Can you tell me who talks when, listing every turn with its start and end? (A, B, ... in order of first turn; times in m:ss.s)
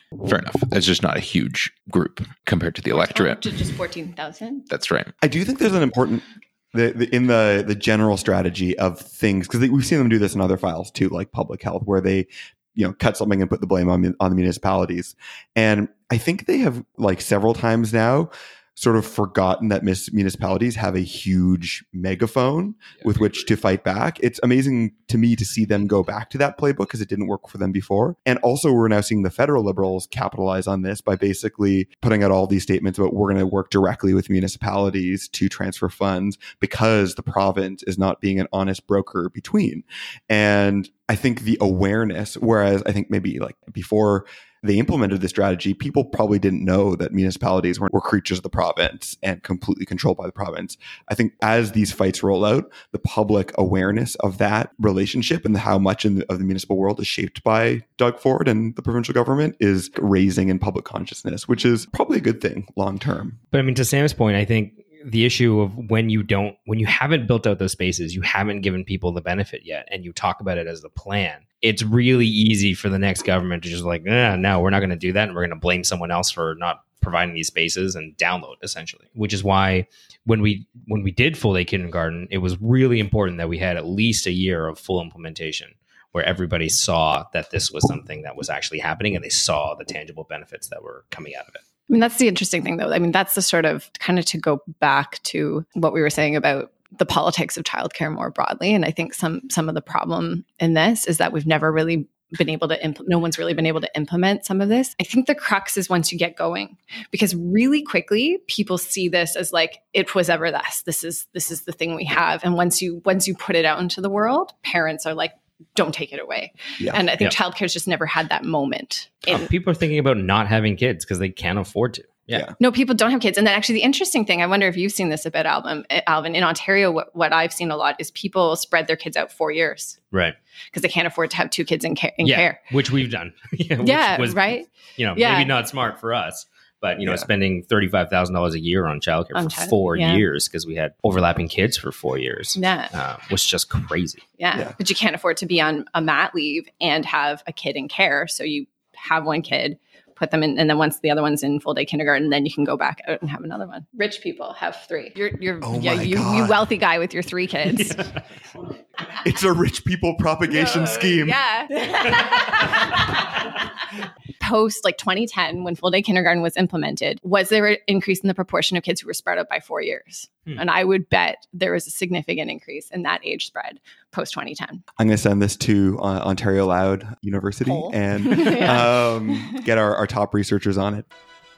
0:00.2-0:03.4 A
0:02.9-0:04.6 B
0:04.7-0:05.1 A
0:05.2-1:03.4 C
1:03.5-1:31.6 D
1:31.9-1:59.5 B
1:56.8-1:57.0 C
1:59.3-2:02.4 D
2:02.6-2:10.0 B
2:10.7-2:12.6 B
2:12.2-2:24.2 D
2:13.8-2:15.5 B
2:17.0-2:17.3 C
2:19.3-2:20.2 B
2:22.6-2:22.9 B
2:24.4-2:38.1 B
2:35.6-2:36.6 C
2:39.2-2:41.4 C
2:40.5-2:43.7 B
2:42.1-2:42.8 D
2:44.4-2:54.8 B
2:55.0-3:01.1 C
2:57.6-2:59.5 B